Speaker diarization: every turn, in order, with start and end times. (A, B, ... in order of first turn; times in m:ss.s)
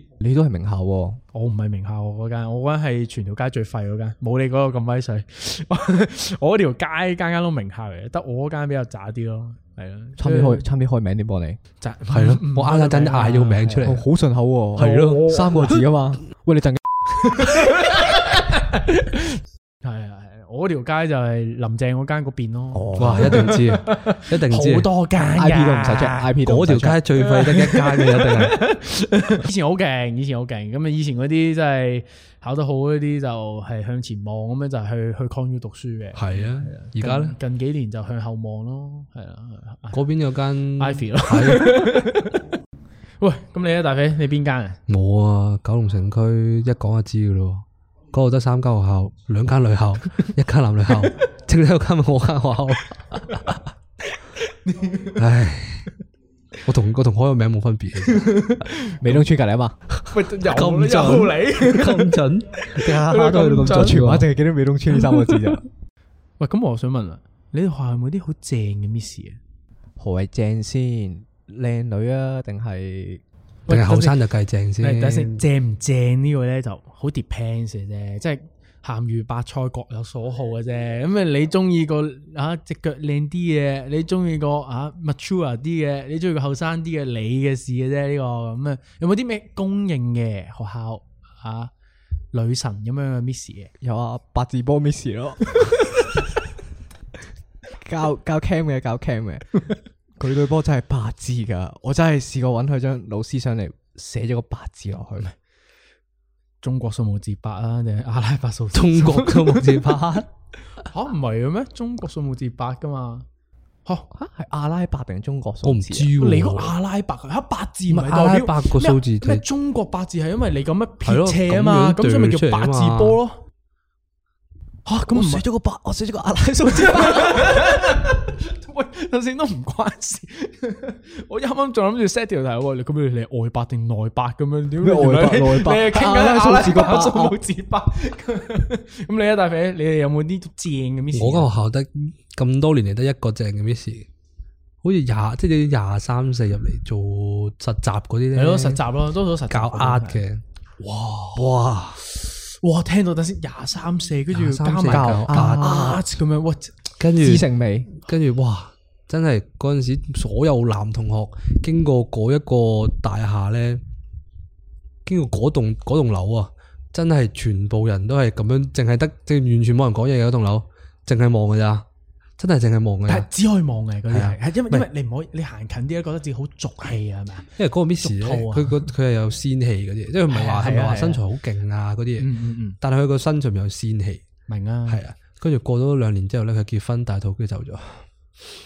0:00.2-0:01.2 A
0:01.3-0:10.6 B
0:10.2-0:11.6 A
0:11.8-0:13.9 B
0:12.1-0:14.0 C
0:13.8-0:17.0 A
0:14.8-0:15.3 C
0:14.8-0:15.7 B
0:17.3-0:19.3 B
0:19.8-0:26.3 B
0:22.7-0:23.5 A
0:23.0-0:24.9 C
0:25.2-0:27.0 A
0:26.4-0:28.6 C
0:27.2-0:40.0 B
0:36.1-0:37.3 C
0:39.9-0:42.0 C
0:40.8-0:42.4 B
0:43.2-0:44.8 B
0:44.9-0:53.5 C
0:54.5-0:55.2 B
0:55.2-0:55.9 C
0:56.6-0:58.5 C
0:58.0-0:59.0 B
0:59.0-0:59.8 A
1:00.1-1:04.1 B
1:00.4-1:04.3 C
1:03.6-1:05.6 A
1:06.4-1:09.4 B
1:10.0-1:13.2 A
1:13.7-1:14.2 B
1:13.7-1:15.4 C
1:14.8-1:31.7 B
1:32.3-1:33.7 B
1:33.8-1:35.8 A
1:37.8-1:39.6 A
1:40.2-1:45.3 A
1:46.6-1:49.9 B
1:48.7-1:50.3 C
1:50.8-1:53.2 B
1:54.1-1:56.1 A
1:55.6-1:56.8 C
1:56.2-2:03.4 B
1:57.9-1:59.4 C
2:01.0-2:03.2 C
2:04.8-2:05.4 B
2:05.1-2:07.8 A
2:06.6-2:21.5 B
2:14.8-2:17.4 A
2:21.1-2:24.1 C
2:24.8-2:28.8 C
2:28.3-2:30.2 B
2:29.5-2:32.0 C
2:32.6-2:36.8 B
2:34.3-2:35.8 C
2:34.9-2:36.0 A
2:37.0-2:43.8 C
2:37.2-2:37.9 A
2:45.0-2:51.8 C
2:52.4-2:53.3 C
2:53.1-2:58.9 B
2:54.1-2:54.9 C
2:57.6-3:04.2 C
3:00.3-3:01.2 B
3:02.2-3:02.8 B
3:04.5-3:05.0 B
3:04.9-3:08.0 C